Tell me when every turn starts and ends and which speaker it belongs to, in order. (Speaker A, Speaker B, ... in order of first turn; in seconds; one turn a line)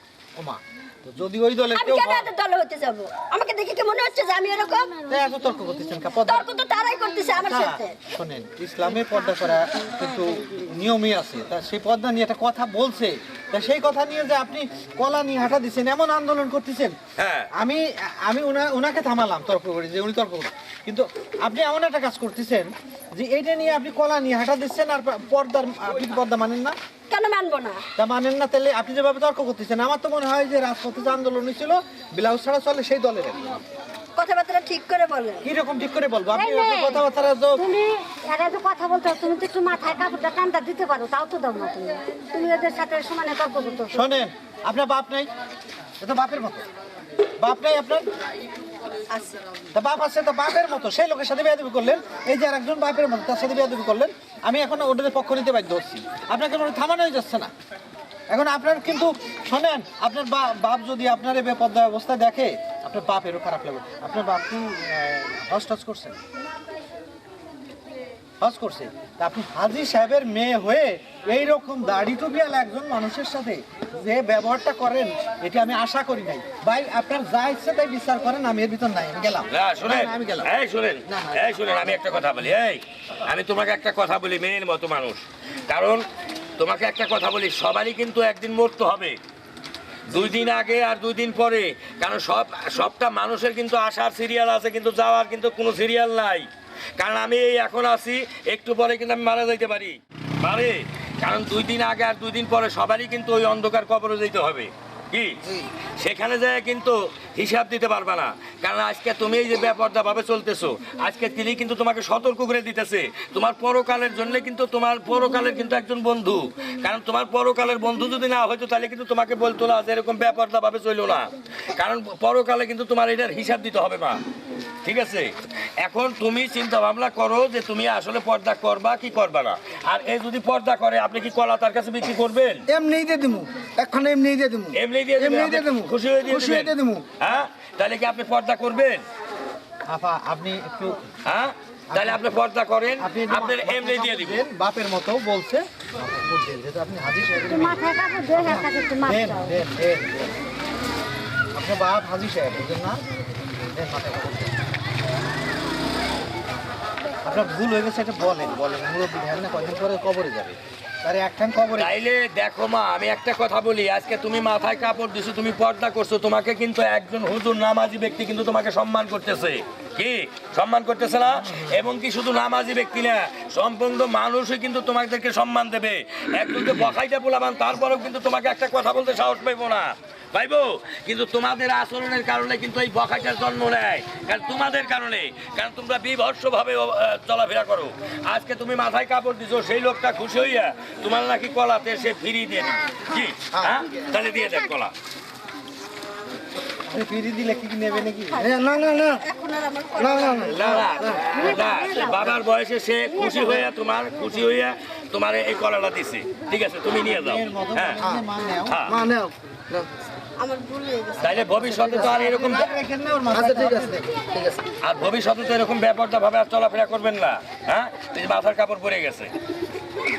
Speaker A: 0.4-2.3
Speaker B: 1.7-4.9
Speaker A: 5.1-6.4
Speaker B: 6.2-8.0
Speaker A: 7.4-17.0
Speaker C: 17.2-17.5
Speaker A: 17.6-26.7
Speaker B: 27.1-27.8
Speaker A: 28.0-33.6
Speaker B: 34.1-35.5
Speaker A: 35.4-37.6
Speaker D: 36.3-37.0
Speaker D: 37.5-44.0
Speaker A: 43.9-45.3
Speaker A: 46.0-46.6
Speaker A: 47.4-48.0
Speaker A: 49.7-57.5
Speaker A: 58.3-66.2
Speaker A: 68.4-80.5
Speaker C: 79.5-86.0
Speaker A: 81.0-82.0
Speaker C: 86.6-89.2
Speaker C: 90.1-105.4
Speaker C: 106.0-124.2
Speaker C: 124.8-132.6
Speaker E: 132.7-137.0
Speaker C: 134.7-139.0
Speaker A: 139.9-141.0
Speaker C: 141.2-144.4
Speaker A: 141.9-142.2
Speaker A: 143.0-150.4
Speaker D: 147.5-149.6
Speaker A: 151.5-153.0
Speaker A: 153.6-154.5
Speaker A: 157.2-161.9
Speaker C: 161.8-194.9
Speaker A: 196.9-198.5
Speaker E: 198.4-199.2
Speaker B: 198.6-202.1
Speaker E: 200.0-201.4
Speaker C: 200.4-208.0
Speaker D: 201.4-202.2
Speaker B: 203.2-203.7
Speaker A: 207.0-208.8
Speaker C: 208.7-209.0
Speaker E: 208.9-209.9
Speaker B: 210.4-211.4
Speaker C: 211.2-212.7
Speaker A: 211.4-214.1
Speaker E: 213.3-214.6
Speaker C: 214.8-219.3